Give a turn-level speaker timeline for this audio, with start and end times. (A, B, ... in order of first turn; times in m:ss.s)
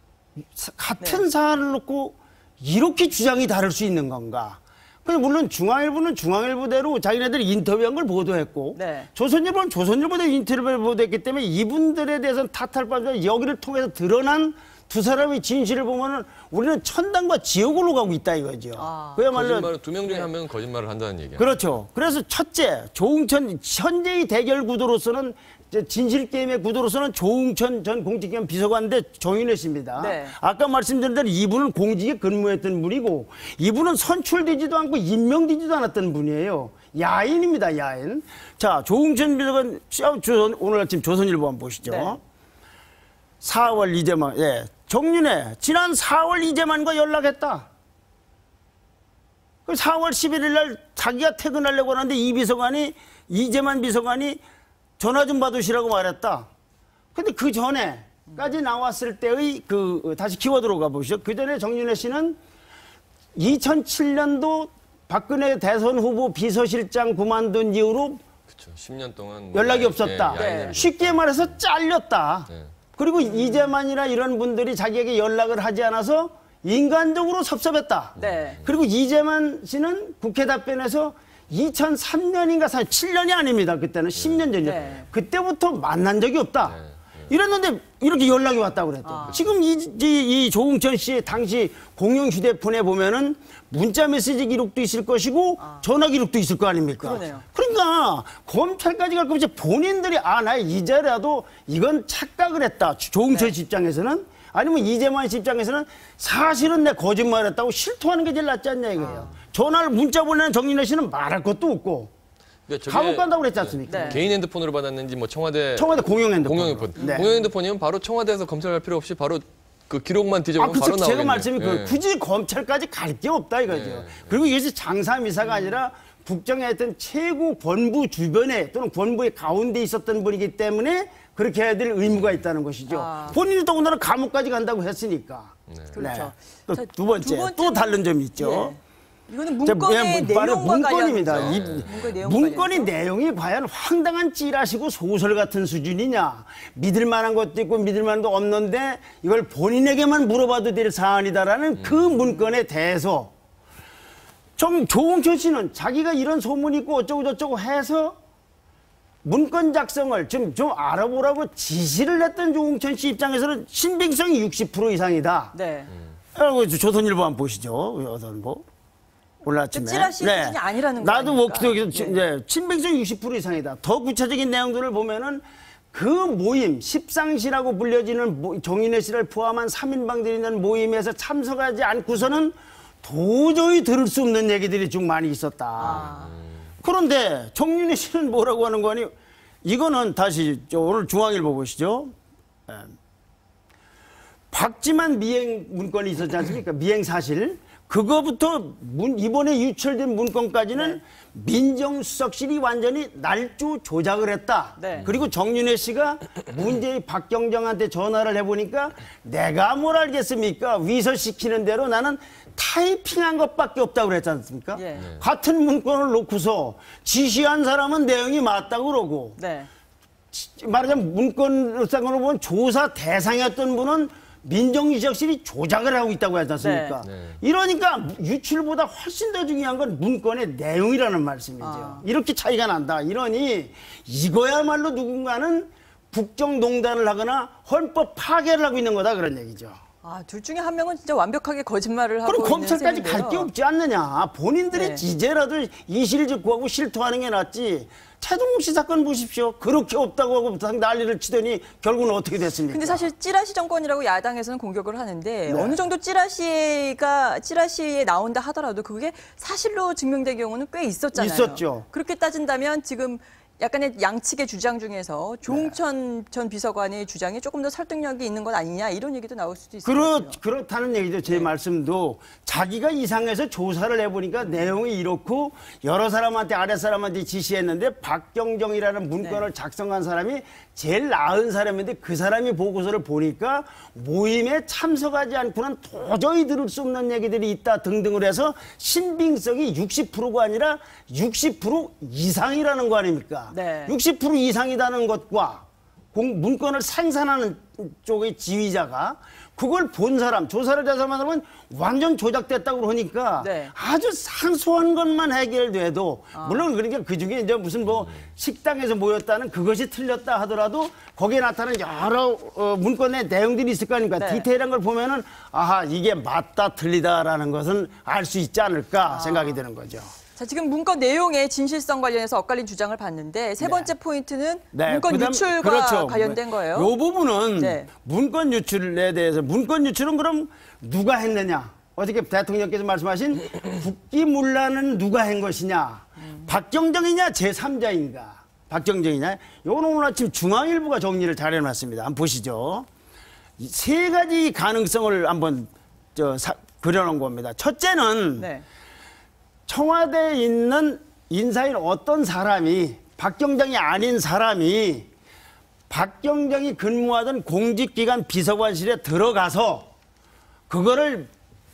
0:00.5-0:19.7 A
0:01.0-0:01.2 B
0:08.8-0:09.1 B
0:18.8-0:19.3 B
0:19.3-0:21.6 C
0:21.4-0:42.2 A
0:30.0-0:30.4 B
0:41.9-0:42.2 B
0:43.4-0:47.7 A
0:49.7-0:54.4 A
0:55.0-0:56.5 A
0:57.2-1:02.4 A
1:03.4-1:08.2 A
1:08.5-1:11.5 C
1:09.5-1:52.1 A
1:10.4-1:10.7 B
1:13.2-1:13.7 B
1:18.2-1:18.8 C
1:18.2-1:18.6 B
1:24.2-1:24.9 C
1:24.6-1:25.1 B
1:26.7-1:27.0 C
1:29.0-1:29.4 B
1:37.0-1:37.4 B
1:49.0-1:49.4 B
1:52.7-2:02.0 C
1:52.9-1:54.3 A
1:53.9-1:54.2 B
1:55.8-1:57.3 A
1:57.0-1:57.5 B
2:00.6-2:18.8 A
2:03.7-2:04.5 C
2:05.4-2:05.8 B
2:12.9-2:13.4 B
2:15.7-2:16.0 C
2:15.9-2:18.8 B
2:19.3-2:22.9 B
2:19.6-2:33.3 A
2:21.3-2:22.1 C
2:31.8-2:32.2 C
2:34.6-2:38.2 A
2:39.2-2:45.6 A
2:45.5-2:45.9 B
2:46.3-2:48.6 A
2:49.4-3:06.1 A
2:49.7-2:52.2 B
3:05.8-3:06.4 B
3:05.9-3:06.4 C
3:06.8-3:09.1 A
3:09.6-3:12.1 A
3:12.7-3:12.9 A
3:14.5-3:39.4 A
3:20.8-3:21.0 B
3:24.8-3:25.1 B
3:24.9-3:25.3 C
3:34.8-3:35.1 B
3:39.4-3:39.7 B
3:40.3-3:59.8 A
3:46.6-3:47.0 B
3:47.0-3:47.4 C
3:51.6-3:52.0 B
4:00.0-4:03.5 B
4:02.2-4:13.1 A
4:04.7-4:05.0 B
4:12.7-4:30.4 B
4:15.5-4:15.8 A
4:21.2-4:21.8 A
4:25.5-4:25.8 A
4:29.8-5:20.1 A
4:34.4-4:34.7 B
4:53.5-4:53.9 B
5:03.4-5:03.7 B
5:06.4-5:06.7 B
5:14.2-5:14.5 B
5:19.0-5:19.6 B
5:20.4-5:26.9 B
5:23.6-5:23.9 A
5:24.7-5:42.9 A
5:27.6-5:27.9 B
5:36.2-5:36.5 B
5:43.6-5:48.5 A
5:48.4-5:48.6 B
5:49.7-5:55.1 A
5:55.9-5:59.9 A
6:00.7-6:01.3 A